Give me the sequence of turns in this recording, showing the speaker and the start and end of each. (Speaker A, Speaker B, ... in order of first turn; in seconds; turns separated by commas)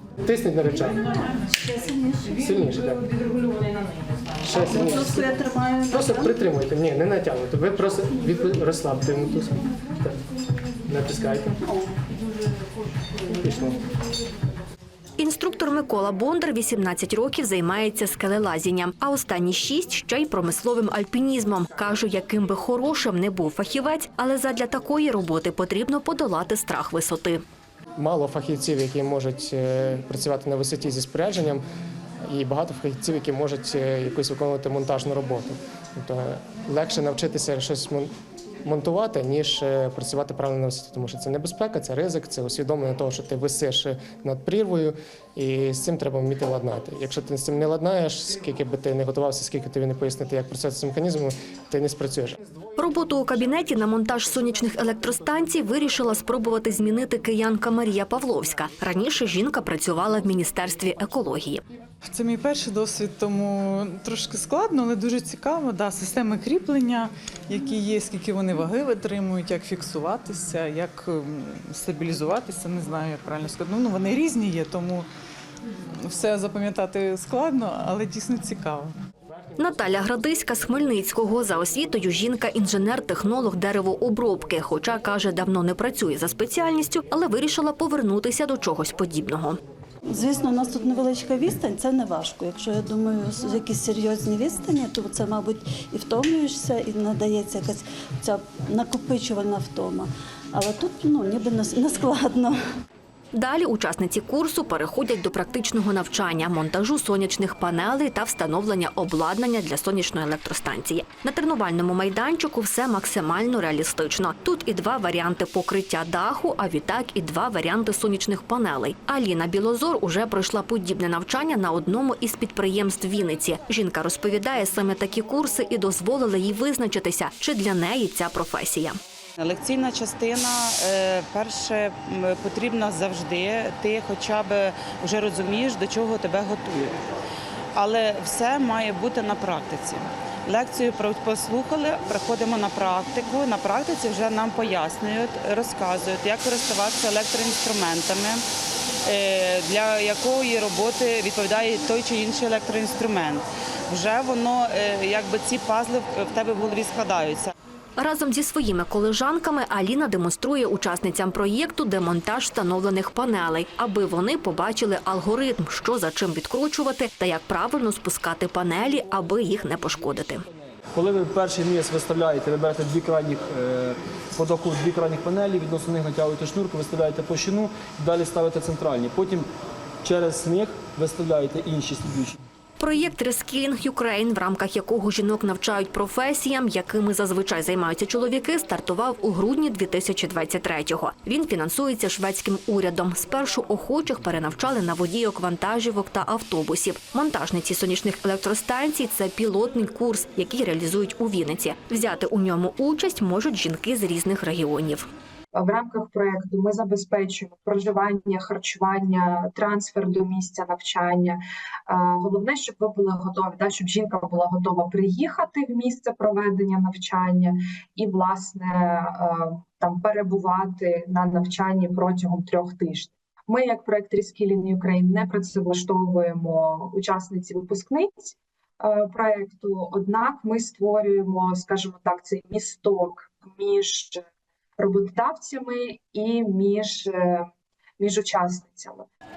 Speaker A: 0.2-1.1, Speaker A: 2.3-3.2, Speaker A: 4.4-5.2, Speaker A: 5.9-10.2, Speaker A: 10.8-11.6, Speaker A: 13.2-13.8, Speaker B: 15.2-27.4, Speaker A: 28.0-31.6, Speaker A: 32.3-38.1, Speaker A: 38.6-52.4, Speaker B: 52.8-61.6, Speaker C: 62.0-75.1, Speaker C: 76.0-78.9, Speaker B: 79.6-89.6, Speaker D: 90.1-102.6, Speaker B: 103.3-129.0, Speaker E: 129.4-137.0, Speaker E: 137.8-148.4, Speaker E: 149.0-157.5, Speaker B: 158.0-170.4, Speaker F: 170.9-179.5, Speaker F: 180.0-182.4, Speaker B: 182.8-205.1, Speaker G: 205.5-234.2, Speaker G: 234.8-237.5, Speaker G: 238.0-239.1